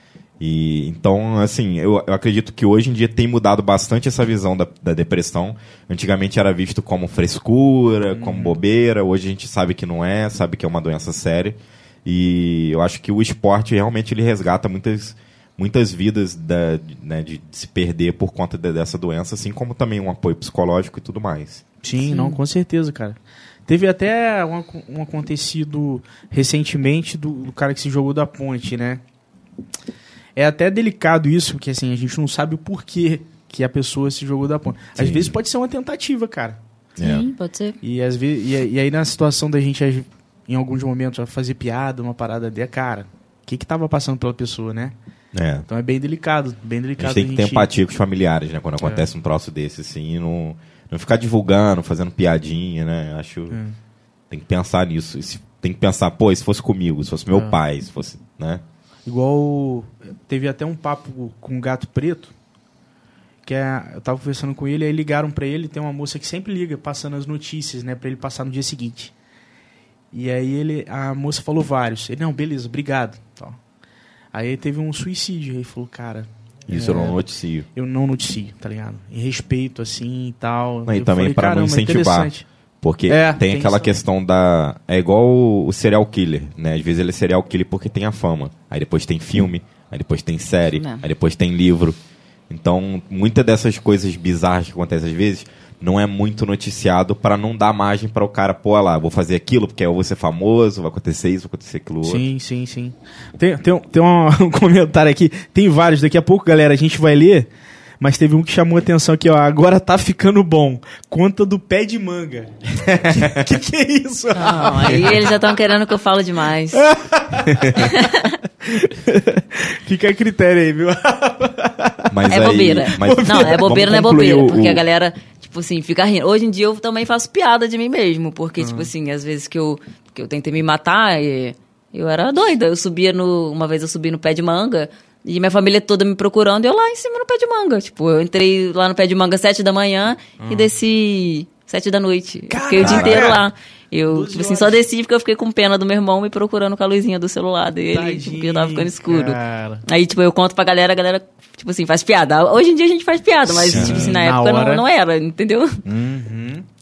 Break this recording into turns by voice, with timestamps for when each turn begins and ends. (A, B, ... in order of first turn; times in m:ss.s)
0:00.4-0:21.6 A
0:08.1-0:08.6 B
0:21.8-0:23.2 B
0:22.0-0:22.4 C
0:23.7-0:29.0 B
0:30.4-0:36.6 B
0:35.0-0:35.4 A
0:37.0-0:37.3 A
0:37.0-0:37.8 C
0:37.8-0:44.9 B
0:45.3-0:45.7 A
0:45.7-0:47.7 B
0:47.0-0:53.6 A
0:48.8-0:49.1 B
0:54.3-0:58.6 A
0:59.1-1:02.3 B
1:03.5-1:09.1 B
1:10.1-1:13.6 B
1:14.3-1:17.2 B
1:16.7-1:17.7 A
1:17.8-1:22.4 B
1:20.9-1:32.0 A
1:23.1-1:24.0 B
1:30.7-1:31.1 C
1:32.5-1:42.3 A
1:42.0-1:47.5 B
1:48.0-1:55.4 B
1:54.4-1:56.9 C
1:56.7-2:02.4 B
1:57.7-1:58.4 C
2:02.1-2:04.8 A
2:02.3-2:35.8 C
2:02.9-2:04.2 B
2:08.6-2:08.9 B
2:20.4-2:20.7 B
2:22.5-2:23.5 B
2:22.8-2:23.4 A
2:24.1-2:24.8 B
2:27.9-2:29.8 B
2:33.5-2:34.8 B
2:33.7-2:34.2 A
2:35.8-2:36.6 B